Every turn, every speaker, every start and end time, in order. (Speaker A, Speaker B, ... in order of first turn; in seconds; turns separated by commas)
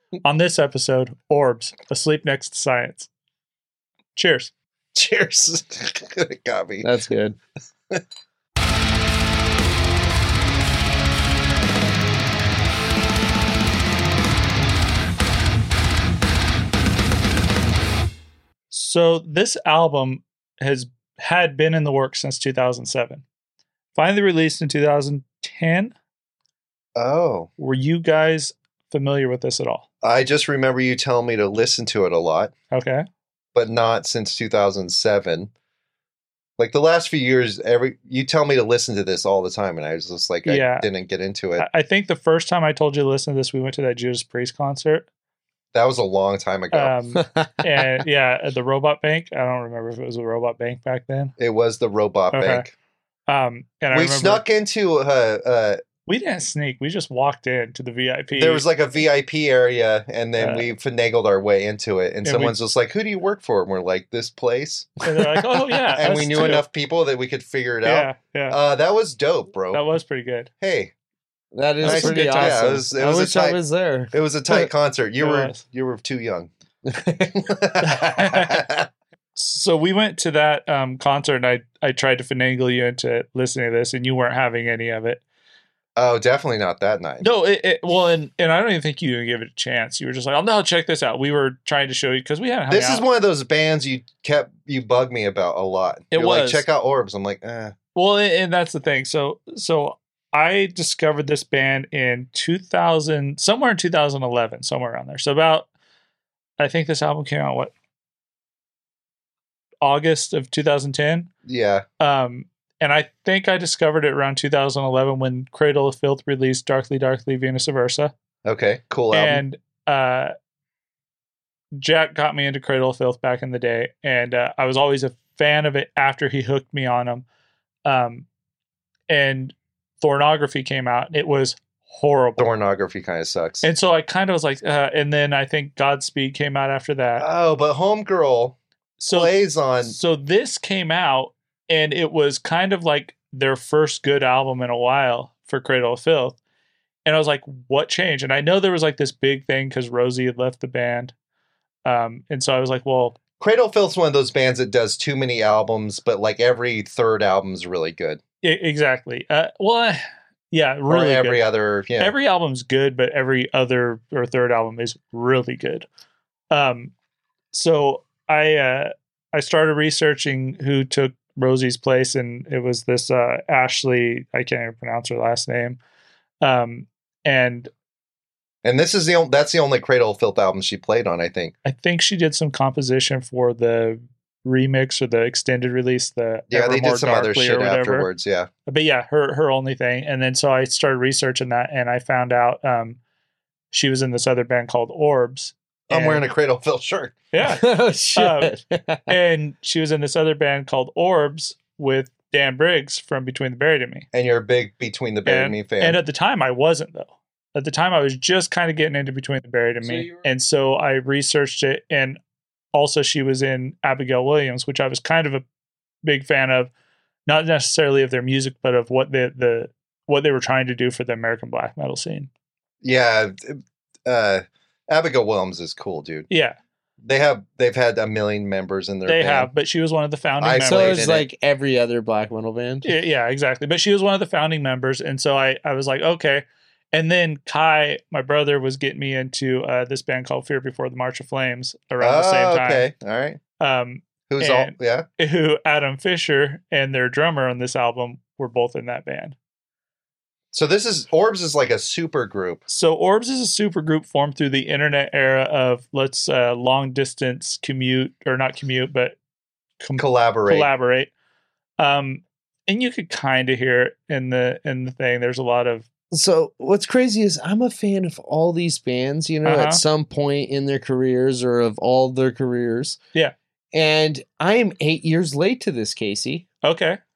Speaker A: 0.2-3.1, Speaker A: 4.2-4.5, Speaker B: 4.9-6.9, Speaker C: 6.8-7.4, Speaker A: 18.7-23.2, Speaker A: 23.9-25.9, Speaker B: 27.0-27.5, Speaker A: 27.6-29.9, Speaker B: 30.0-32.5, Speaker A: 32.7-33.0, Speaker B: 33.5-35.5, Speaker B: 36.6-41.7, Speaker A: 40.5-40.9, Speaker A: 41.6-45.1, Speaker B: 45.7-46.9, Speaker A: 46.7-51.3, Speaker C: 47.2-47.9, Speaker B: 51.4-52.7, Speaker A: 52.3-52.6, Speaker A: 53.3-54.4, Speaker B: 53.9-55.8, Speaker A: 56.1-58.6, Speaker B: 58.3-64.9, Speaker A: 60.4-60.7, Speaker A: 62.2-62.6, Speaker A: 65.0-66.6, Speaker C: 65.9-66.6, Speaker B: 66.0-69.8, Speaker A: 67.8-68.6, Speaker A: 69.7-70.5, Speaker B: 70.6-70.9, Speaker C: 71.5-74.7, Speaker A: 71.8-72.7, Speaker B: 71.8-73.6, Speaker B: 74.1-76.5, Speaker A: 75.2-75.6, Speaker C: 76.9-77.4, Speaker B: 77.4-78.9, Speaker A: 77.8-78.6, Speaker A: 79.4-85.2, Speaker B: 86.0-87.2, Speaker A: 87.2-93.0, Speaker B: 92.7-97.8, Speaker A: 96.1-96.7, Speaker A: 98.0-105.7, Speaker A: 106.6-107.7, Speaker A: 109.8-111.3, Speaker B: 111.5-111.8, Speaker A: 112.0-118.1, Speaker B: 118.5-119.4, Speaker A: 119.1-120.3, Speaker A: 121.7-127.2, Speaker A: 127.8-128.3, Speaker A: 129.1-132.5, Speaker B: 132.4-133.6, Speaker A: 133.6-137.3, Speaker B: 137.2-138.6, Speaker A: 139.0-146.4, Speaker B: 139.1-139.9, Speaker A: 147.1-151.1, Speaker A: 151.8-153.2, Speaker B: 153.4-158.2, Speaker A: 158.4-161.4, Speaker B: 160.9-162.2, Speaker A: 162.0-165.9, Speaker A: 166.5-166.9, Speaker A: 167.5-175.8, Speaker A: 176.4-177.7, Speaker B: 178.6-181.5, Speaker A: 181.7-188.1, Speaker B: 186.5-188.5, Speaker A: 188.7-193.0, Speaker A: 193.7-196.2, Speaker B: 195.9-197.2, Speaker A: 197.3-198.5, Speaker C: 197.5-199.2, Speaker A: 199.1-204.1, Speaker B: 204.1-206.0, Speaker A: 205.3-212.2, Speaker C: 209.8-210.3, Speaker A: 212.7-215.4, Speaker A: 216.0-216.7, Speaker A: 217.3-222.3, Speaker B: 222.8-226.3, Speaker A: 226.3-226.6, Speaker B: 227.0-229.5, Speaker A: 229.1-231.1, Speaker B: 230.4-231.3, Speaker C: 230.7-232.9, Speaker A: 232.8-242.9, Speaker B: 242.0-243.4, Speaker A: 243.6-249.3, Speaker B: 244.3-245.1, Speaker B: 250.5-252.6, Speaker A: 252.7-259.2, Speaker A: 259.8-261.1, Speaker B: 260.0-260.7, Speaker A: 261.8-265.9, Speaker C: 266.1-273.0, Speaker A: 269.4-269.8, Speaker C: 273.7-276.5, Speaker A: 276.6-277.0